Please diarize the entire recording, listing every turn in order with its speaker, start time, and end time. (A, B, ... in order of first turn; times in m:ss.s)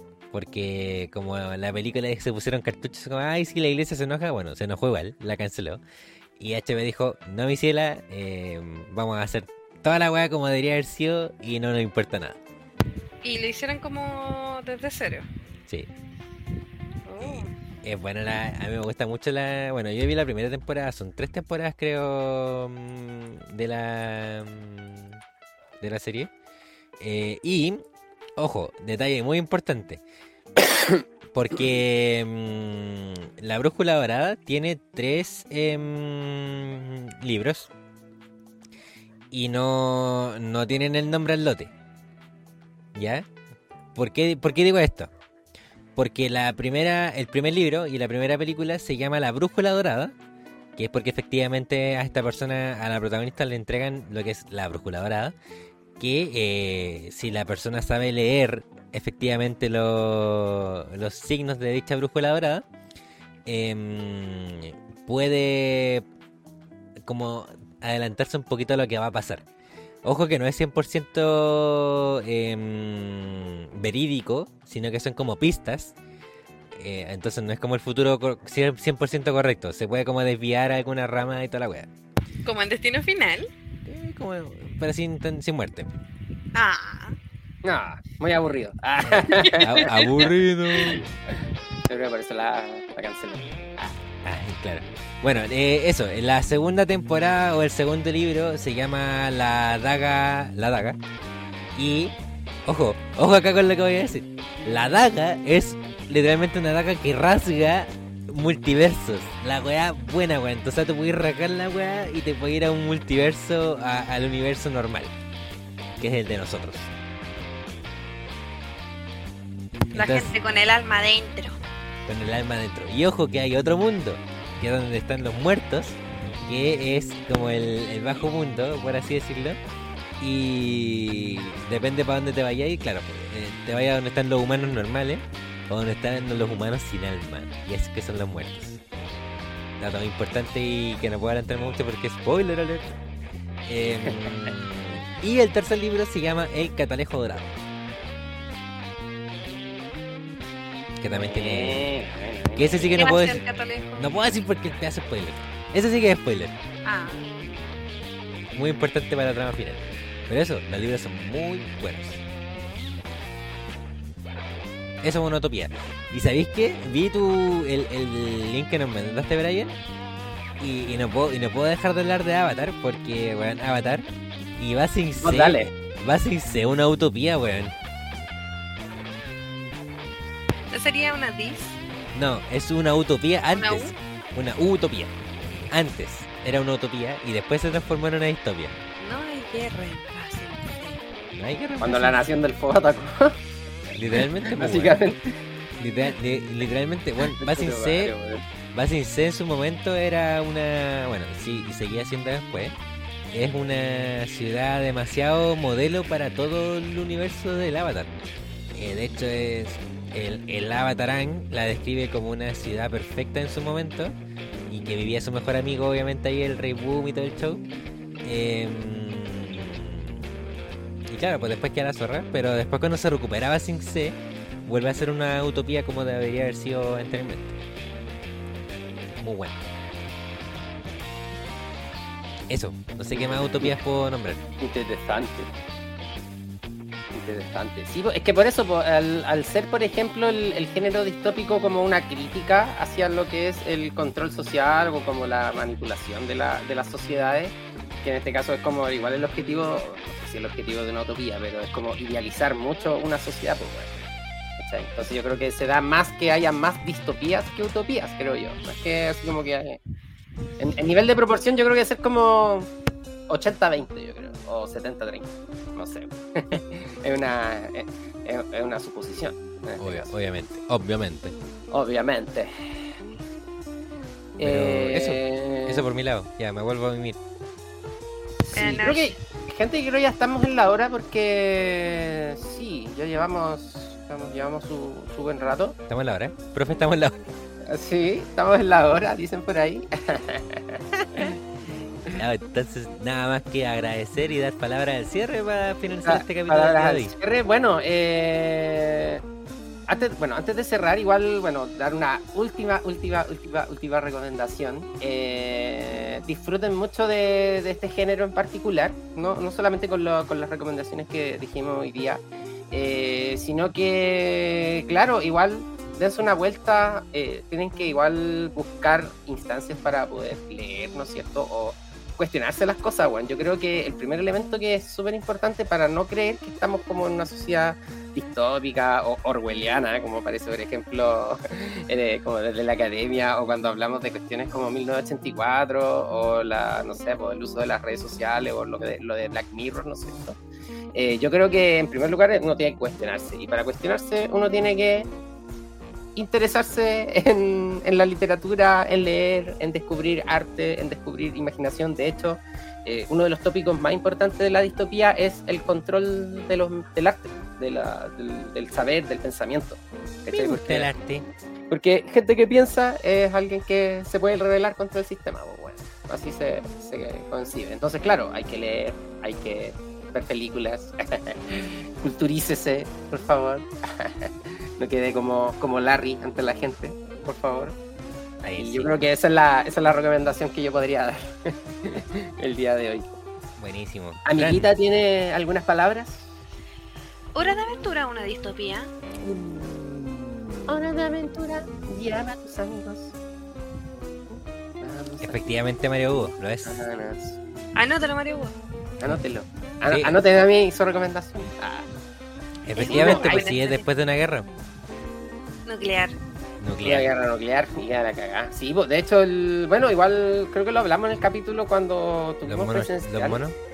0:00.3-0:05.8 A
0:06.4-0:12.4 A
0:13.2-0:15.3 B
0:17.1-0:17.5 B
0:17.2-0:25.2 A
0:25.8-0:26.3 A
0:27.0-0:27.8 A
0:28.4-0:30.0 A
0:31.3-0:37.7 A
0:39.3-0:41.7 A
0:43.0-0:43.3 A
0:44.0-0:45.1 A
0:46.0-0:50.1 A
0:50.8-0:55.4 A
0:56.0-1:02.6 A
1:03.5-1:06.0 A
1:07.0-1:09.4 A
1:10.0-1:15.9 A
1:16.7-1:21.9 A
1:22.4-1:23.5 B
1:23.9-1:25.9 A
1:26.5-1:27.2 B
1:27.6-1:30.0 C
1:29.0-1:31.0 A
1:29.3-1:29.9 B
1:31.9-1:33.9 C
1:34.2-1:41.0 A
1:41.8-1:42.1 A
1:42.7-1:55.1 A
1:56.0-1:56.9 A
1:59.9-2:00.3 A
1:59.9-2:01.6 B
2:02.1-2:09.6 A
2:10.2-2:18.8 A
2:19.8-2:22.9 A
2:23.7-2:27.5 A
2:31.0-2:31.9 A
2:31.3-2:33.0 C
2:32.6-2:33.4 A
2:33.0-2:34.0 B
2:34.0-2:36.6 A
2:36.8-2:37.2 B
2:38.5-2:42.2 A
2:45.0-2:49.8 A
2:50.6-2:54.1 A
2:54.6-2:57.7 A
2:55.2-2:55.7 C
3:00.7-3:01.8 B
3:02.1-3:05.1 A
3:03.6-3:03.9 B
3:05.7-3:08.7 A
3:09.0-3:11.1 B
3:11.4-3:12.3 A
3:11.8-3:13.4 C
3:14.0-3:15.2 A
3:14.4-3:15.4 C
3:15.8-3:18.1 A
3:17.2-3:18.4 C
3:18.7-3:22.8 A
3:23.3-3:28.1 A
3:28.8-3:34.1 A
3:34.7-3:37.6 A
3:38.2-3:40.1 A
3:41.1-3:47.6 A
3:49.2-3:49.6 A
3:52.5-3:54.4 A
3:53.1-3:53.8 C
3:54.6-3:55.5 C
3:57.1-4:14.0 C
4:14.6-4:19.8 C
4:20.6-4:22.7 C
4:23.3-4:30.1 C
4:29.8-4:31.3 A
4:31.7-4:33.0 C
4:34.4-4:35.9 C
4:34.4-4:37.2 A
4:38.5-4:45.8 C
4:38.5-4:39.2 B
4:45.9-4:47.2 A
4:47.7-4:50.8 C
4:52.0-4:57.1 A
4:56.0-4:59.2 C
4:59.9-5:40.4 C
5:40.9-5:45.1 C
5:46.2-6:00.9 C
6:00.3-6:01.3 A
6:01.7-6:17.8 C
6:18.4-6:19.0 A
6:18.6-6:23.2 C
6:23.6-6:24.7 A
6:24.2-6:26.3 C
6:27.4-6:28.9 B
6:29.2-6:33.2 C
6:34.3-6:35.4 C
6:35.2-6:36.8 A
6:36.7-6:37.4 C
6:37.8-6:38.6 B
6:39.0-6:41.9 C
6:39.9-6:40.2 A
6:42.6-6:44.5 A
6:42.8-6:43.8 B
6:42.8-6:43.5 C
6:45.7-6:46.2 B
6:46.6-6:47.1 A
6:46.8-6:53.4 C
6:52.4-6:53.6 A